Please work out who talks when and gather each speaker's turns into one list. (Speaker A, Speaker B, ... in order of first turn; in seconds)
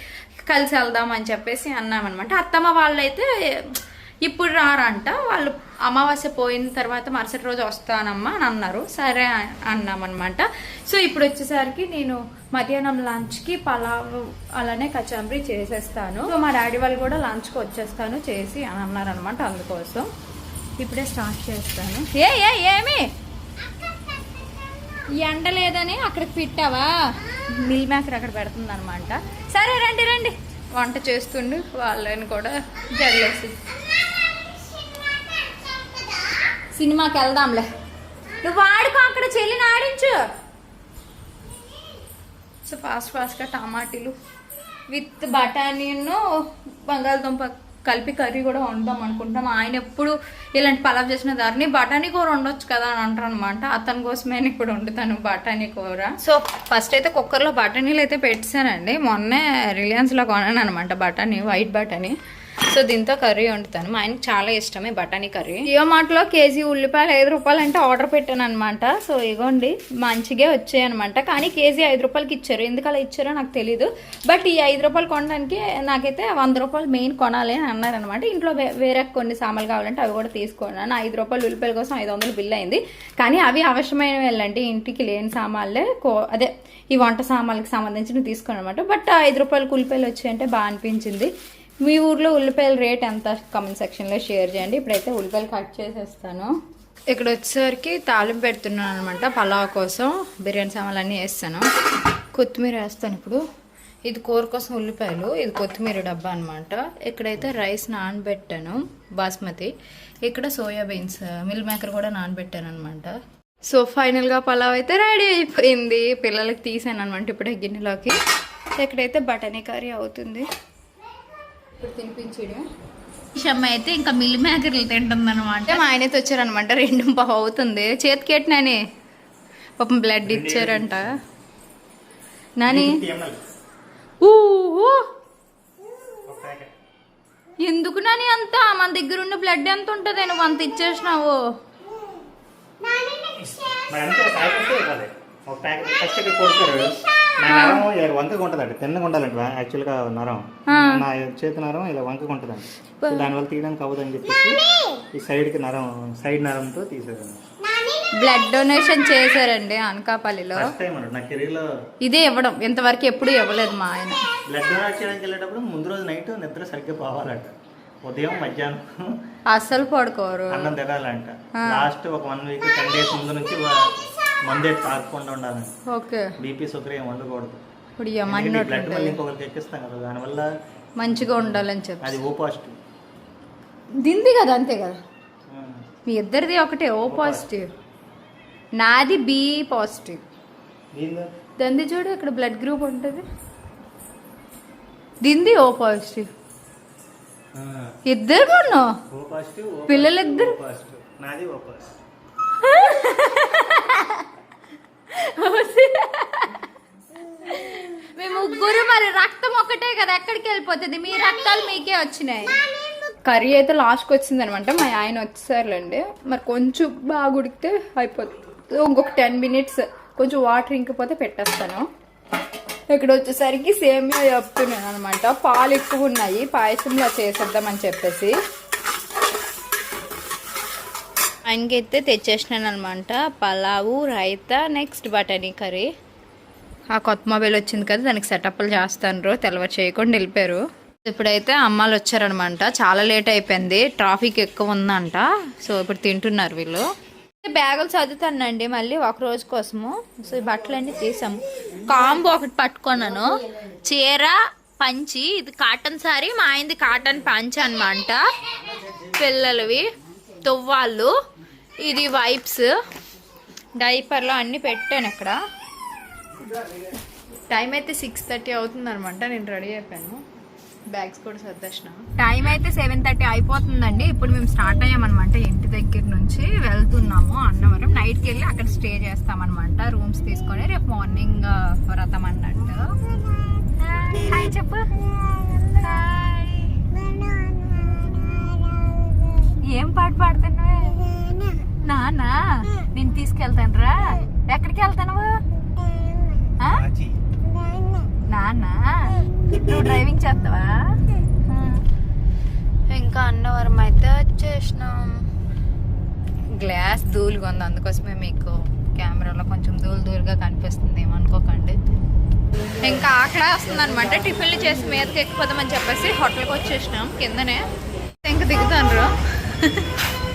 Speaker A: 0.5-20.1, 20.8-23.1, 25.2-26.9, 27.5-33.6, 36.7-37.7, 38.4-40.2, 42.6-44.1, 44.9-46.2, 46.9-62.1, 62.7-91.3, 91.8-96.5, 97.1-101.7, 102.3-103.4, 104.0-118.2, 118.8-120.5, 121.8-122.7, 123.3-128.8, 129.8-131.2, 132.6-133.0, 134.2-135.1, 137.6-141.4, 147.5-147.8, 150.7-151.0, 153.0-153.3, 158.1-160.7, 162.0-164.2, 169.5-170.7, 171.6-171.9, 175.9-176.3, 178.0-179.2, 181.0-182.2, 184.0-185.0, 186.1-187.7, 188.8-190.2, 191.6-193.2, 195.2-196.3, 198.1-198.9, 199.9-200.5, 202.6-204.3, 205.1-206.7, 207.4-212.5, 213.2-221.9, 222.9-228.3, 231.4-235.9, 236.9-246.8, 247.4-258.2, 259.0-259.9, 260.4-261.1, 261.8-262.7, 263.8-265.4, 267.5-270.2, 270.9-282.9, 283.7-284.9, 285.4-286.8, 289.6-291.1, 291.8-295.4, 296.6-296.8, 298.3-300.9, 301.4-301.8, 302.9-305.2, 306.5-311.8, 312.8-317.7, 318.2-319.9
Speaker B: 130.2-131.1, 132.7-133.4, 136.3-136.7, 143.4-154.6, 155.1-157.4, 160.6-161.7, 164.5-169.2, 170.5-173.8, 174.4-175.7, 176.4-177.6, 178.2-180.5, 181.1-182.8, 185.5-185.8, 187.1-187.5, 190.9-191.3, 197.5-197.9, 199.1-201.9, 296.6-297.2